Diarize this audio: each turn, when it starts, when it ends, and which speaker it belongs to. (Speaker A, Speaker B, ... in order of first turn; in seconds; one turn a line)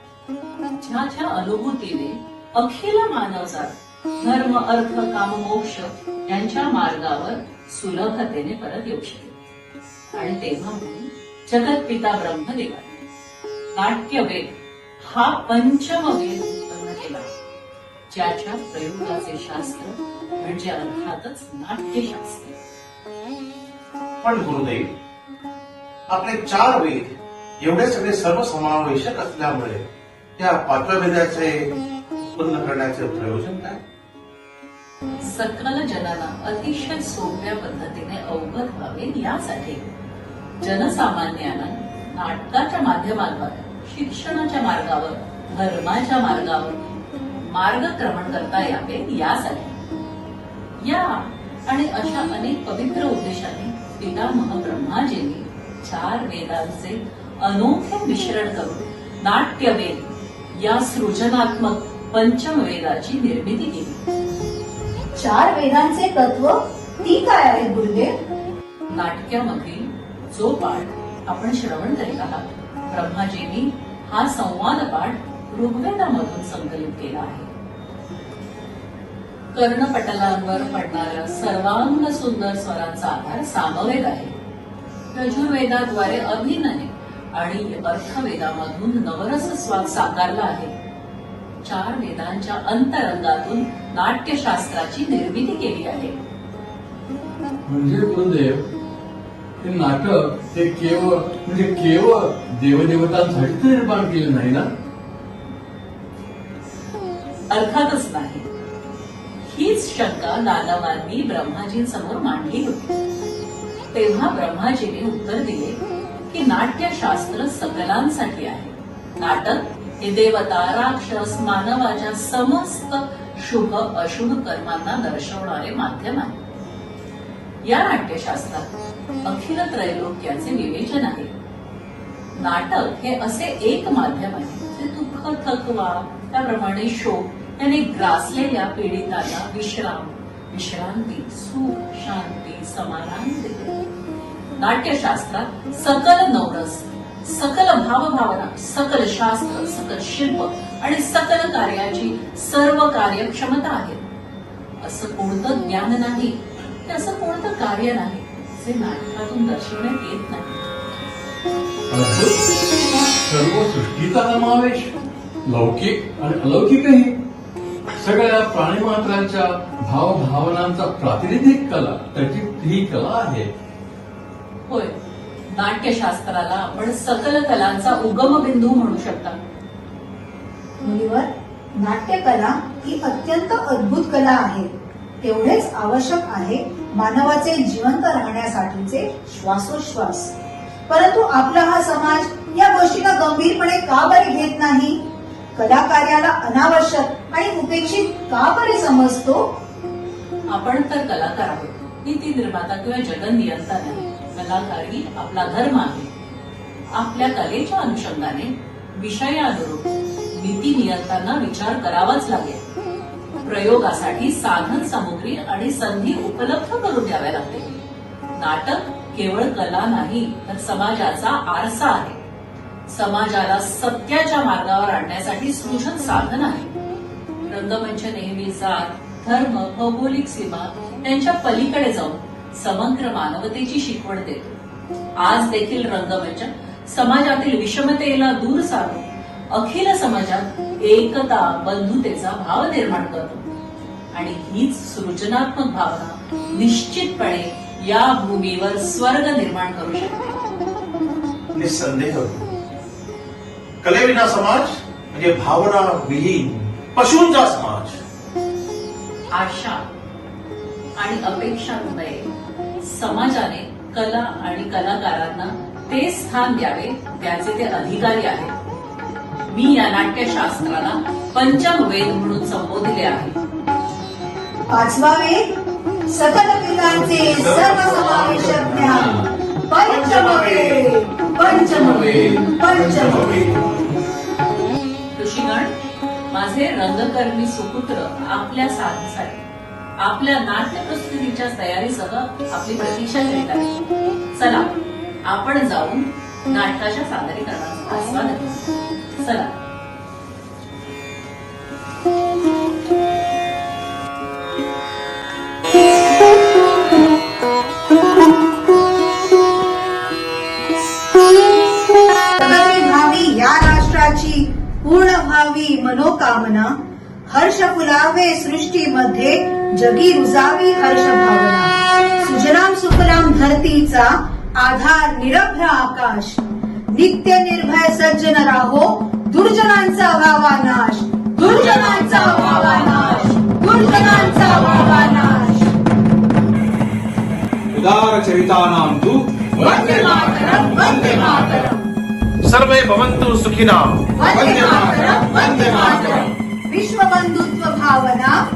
Speaker A: 0.7-9.4
Speaker A: 10.1-13.1
Speaker A: 13.7-17.3
Speaker A: 18.1-22.5
Speaker B: 24.2-24.9
Speaker B: 26.1-31.8
Speaker B: 32.4-33.8
Speaker A: 35.2-39.9
Speaker A: 40.6-46.8
Speaker A: 47.4-49.8
Speaker A: 50.8-64.0
Speaker C: 65.2-68.1
Speaker A: 68.9-77.5
Speaker A: 79.5-84.4
Speaker A: 85.1-90.8
Speaker A: 91.6-96.2
Speaker D: 97.7-98.7
Speaker D: 99.6-104.7
Speaker A: 107.5-108.5
Speaker A: 109.4-113.0
Speaker A: 113.9-126.4
Speaker A: 127.6-128.7
Speaker A: 129.2-131.3
Speaker A: 132.3-143.8
Speaker A: 144.6-154.0
Speaker A: 154.8-160.7
Speaker D: 161.9-162.5
Speaker D: 163.2-164.9
Speaker D: 165.5-167.2
Speaker D: 168.0-173.5
Speaker A: 174.7-175.0
Speaker A: 175.5-179.4
Speaker C: 180.8-190.3
Speaker C: 190.9-195.0
Speaker C: 195.6-199.5
Speaker A: 200.5-206.1
Speaker A: 206.9-212.7
Speaker A: 213.4-217.8
Speaker A: 218.4-222.2
Speaker A: 222.9-226.8
Speaker A: 227.5-234.6
Speaker A: 235.2-243.5
Speaker A: 244.1-250.3
Speaker B: 251.5-252.5
Speaker B: 253.8-258.0
Speaker A: 259.3-259.9
Speaker A: 261.0-268.5
Speaker A: 269.5-273.3
Speaker C: 274.7-275.4
Speaker C: 276.1-283.5
Speaker B: 277.1-279.2
Speaker B: 279.9-280.9
Speaker B: 282.9-283.5
Speaker A: 285.1-285.7
Speaker A: 286.3-289.5
Speaker A: 290.0-293.8
Speaker A: 294.3-299.6
Speaker C: 312.4-316.7
Speaker C: 317.3-326.4
Speaker C: 326.9-335.7
Speaker E: 337.7-339.7
Speaker C: 339.8-341.8
Speaker A: 339.8-340.7
Speaker B: 342.4-344.7
Speaker C: 344.2-345.8
Speaker A: 344.8-346.3
Speaker C: 346.7-348.4